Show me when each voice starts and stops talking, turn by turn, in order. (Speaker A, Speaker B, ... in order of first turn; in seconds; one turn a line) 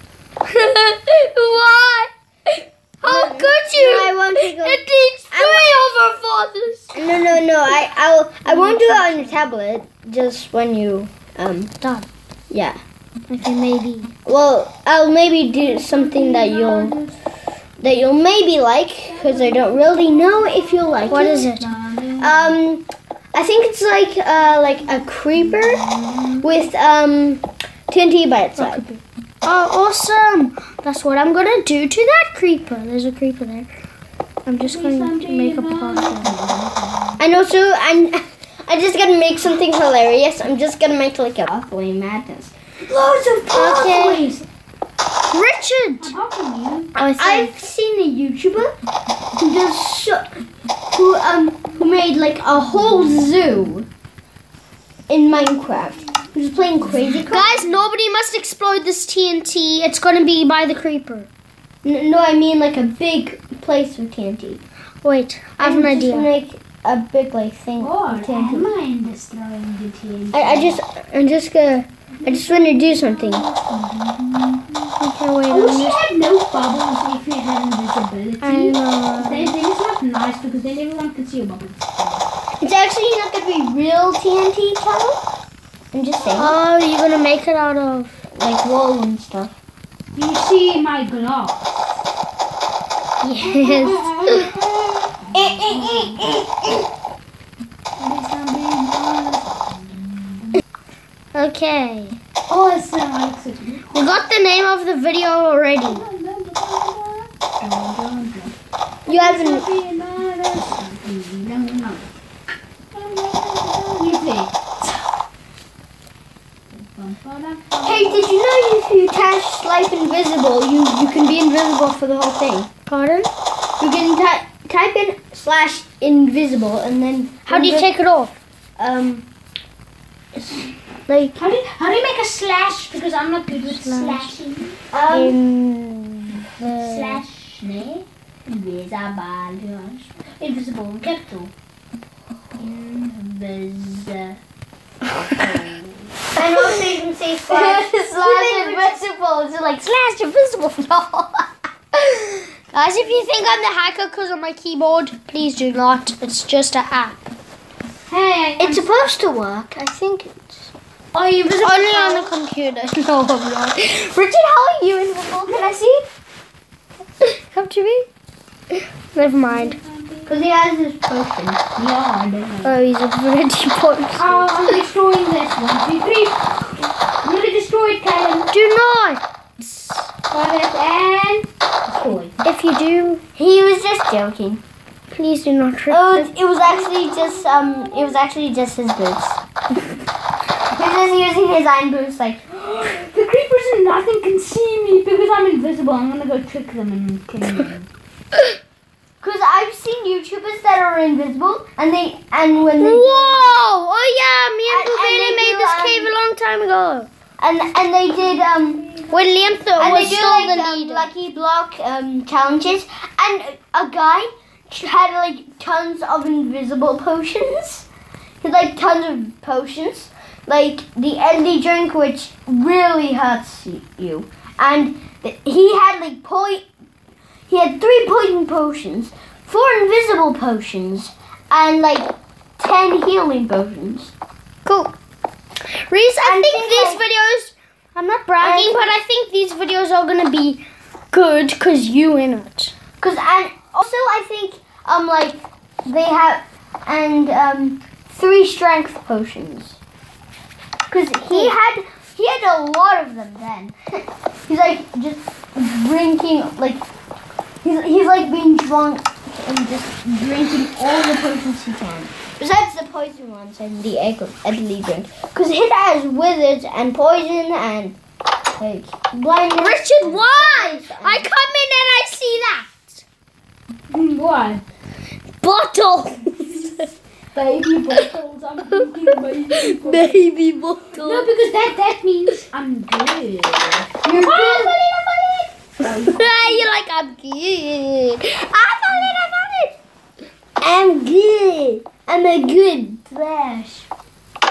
Speaker A: 0.5-7.0
Speaker B: 3.0-5.7
Speaker B: 6.9-11.7
Speaker A: 8.4-9.4
Speaker A: 11.8-12.1
Speaker B: 12.5-12.8
Speaker A: 13.3-14.1
Speaker B: 14.2-16.9
Speaker C: 15.5-17.2
Speaker B: 17.8-21.4
Speaker C: 19.0-22.6
Speaker A: 21.1-21.6
Speaker B: 22.2-25.8
Speaker C: 24.8-26.5
Speaker B: 26.4-28.8
Speaker A: 28.6-33.7
Speaker A: 34.5-36.3
Speaker C: 34.6-37.2
Speaker B: 37.2-42.5
Speaker C: 42.9-44.4
Speaker A: 43.5-44.3
Speaker A: 45.3-46.1
Speaker C: 46.0-46.9
Speaker A: 47.0-47.5
Speaker B: 47.2-48.7
Speaker B: 49.4-50.4
Speaker B: 50.9-53.9
Speaker B: 55.1-57.7
Speaker A: 57.3-61.3
Speaker B: 61.8-64.6
Speaker A: 65.0-66.3
Speaker B: 65.6-68.7
Speaker C: 67.8-70.8
Speaker B: 70.3-73.5
Speaker C: 72.2-74.9
Speaker A: 75.0-76.0
Speaker C: 75.5-82.2
Speaker A: 78.4-79.5
Speaker B: 82.6-85.2
Speaker B: 85.9-86.5
Speaker A: 86.3-88.2
Speaker B: 88.3-89.5
Speaker C: 90.1-92.0
Speaker A: 93.2-94.1
Speaker C: 93.4-96.3
Speaker B: 95.3-96.9
Speaker C: 98.0-100.6
Speaker A: 101.3-102.2
Speaker C: 102.5-103.9
Speaker A: 103.9-106.0
Speaker C: 105.8-108.5
Speaker C: 109.0-112.0
Speaker B: 109.1-109.7
Speaker C: 112.9-114.8
Speaker C: 116.7-118.3
Speaker B: 117.8-122.7
Speaker A: 122.8-123.3
Speaker B: 123.8-127.9
Speaker A: 127.5-128.3
Speaker B: 128.8-129.2
Speaker A: 131.1-131.4
Speaker C: 131.4-134.8
Speaker A: 133.6-134.3
Speaker B: 134.9-135.3
Speaker A: 135.1-137.2
Speaker C: 136.8-141.5
Speaker C: 142.5-144.4
Speaker C: 145.4-146.1
Speaker B: 146.3-149.1
Speaker A: 146.4-146.8
Speaker A: 147.5-151.4
Speaker A: 152.0-157.3
Speaker C: 158.1-158.8
Speaker B: 158.6-160.3
Speaker C: 161.1-162.3
Speaker A: 161.6-164.7
Speaker B: 164.5-165.9
Speaker C: 165.5-166.0
Speaker A: 167.3-168.1
Speaker A: 169.1-169.8
Speaker C: 169.5-170.3
Speaker B: 170.2-171.6
Speaker C: 171.8-172.7
Speaker A: 172.6-174.5
Speaker C: 174.2-178.5
Speaker A: 178.5-180.1
Speaker C: 180.3-182.3
Speaker A: 182.4-183.2
Speaker B: 183.3-184.6
Speaker A: 185.1-186.3
Speaker B: 185.9-189.4
Speaker C: 186.7-188.2
Speaker B: 190.7-192.4
Speaker C: 192.5-197.9
Speaker B: 199.2-203.5
Speaker A: 202.8-207.1
Speaker B: 204.7-206.1
Speaker B: 207.4-208.9
Speaker A: 209.1-211.1
Speaker B: 209.8-217.9
Speaker C: 209.8-210.2
Speaker B: 218.4-226.7
Speaker B: 227.5-234.1
Speaker A: 234.6-234.9
Speaker A: 235.8-242.8
Speaker B: 236.2-237.0
Speaker B: 238.4-238.8
Speaker B: 243.0-249.8
Speaker B: 250.9-256.8
Speaker B: 257.6-268.0
Speaker B: 268.6-271.3
Speaker A: 269.6-273.0
Speaker C: 273.9-274.6
Speaker A: 275.4-276.9
Speaker C: 277.3-280.2
Speaker A: 279.5-281.2
Speaker B: 280.0-281.0
Speaker C: 280.9-286.7
Speaker B: 284.0-284.7
Speaker A: 286.1-289.7
Speaker B: 290.6-293.1
Speaker C: 293.1-293.8